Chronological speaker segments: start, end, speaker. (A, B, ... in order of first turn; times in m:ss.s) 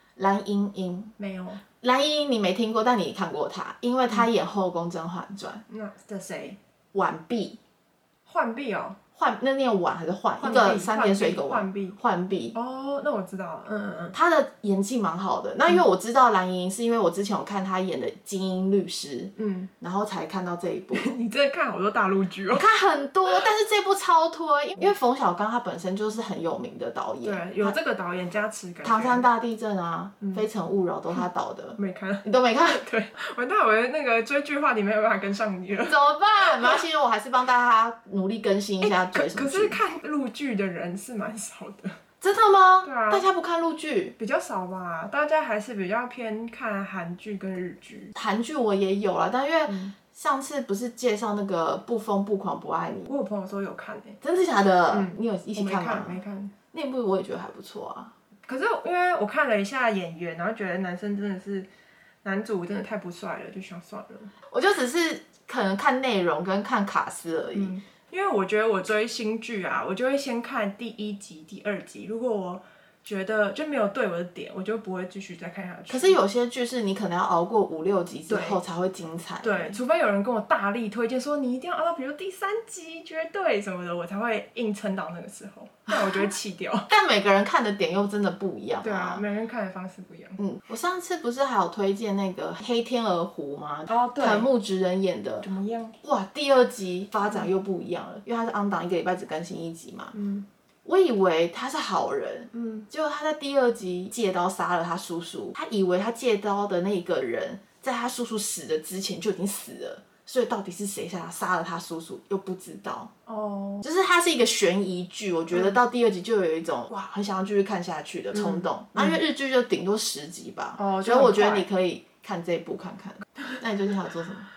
0:00.2-0:01.1 A
0:01.2-0:01.6 B
0:01.8-0:05.6 A
0:05.7-0:06.6 B
0:06.9-0:07.6 A
0:08.3-0:09.0 B
0:09.2-0:12.6 A
0:10.4-0:12.0 B
0:12.5-0:14.2 B
0:14.1-0:21.1 A
0:19.4-0:19.7 B
0:20.9-0:22.6 B
0:22.5-0:27.8 A
0:27.2-0:29.2 B
0:28.8-0:32.8 A
0:30.2-0:30.4 B
0:31.8-0:36.8 B
0:35.9-0:39.8 A
0:38.8-0:42.0 B
0:42.2-0:44.1 A
0:42.8-0:43.2 B
0:44.2-0:48.1 B
0:48.1-0:53.1 A
0:49.7-0:49.9 B
0:53.0-0:54.2 B
0:54.2-0:56.2 A
0:54.9-0:56.5 B
0:56.7-0:58.1 A
0:58.5-1:01.7 B
1:02.2-1:04.3 B
1:04.5-1:07.7 A
1:07.5-1:16.2 B
1:15.9-1:19.8 A
1:18.3-1:18.6 B
1:19.4-1:26.9 B
1:25.9-1:26.3 A
1:26.9-1:29.2 A
1:28.8-1:30.4 B
1:30.4-1:35.5 A
1:33.9-1:34.5 B
1:35.4-1:35.9 B
1:36.0-1:40.1 A
1:40.1-1:40.5 B
1:40.8-1:53.1 A
1:42.5-1:42.9 B
1:53.3-1:53.8 B
1:53.8-2:04.5 A
1:58.3-1:59.2 B
2:00.8-2:01.7 B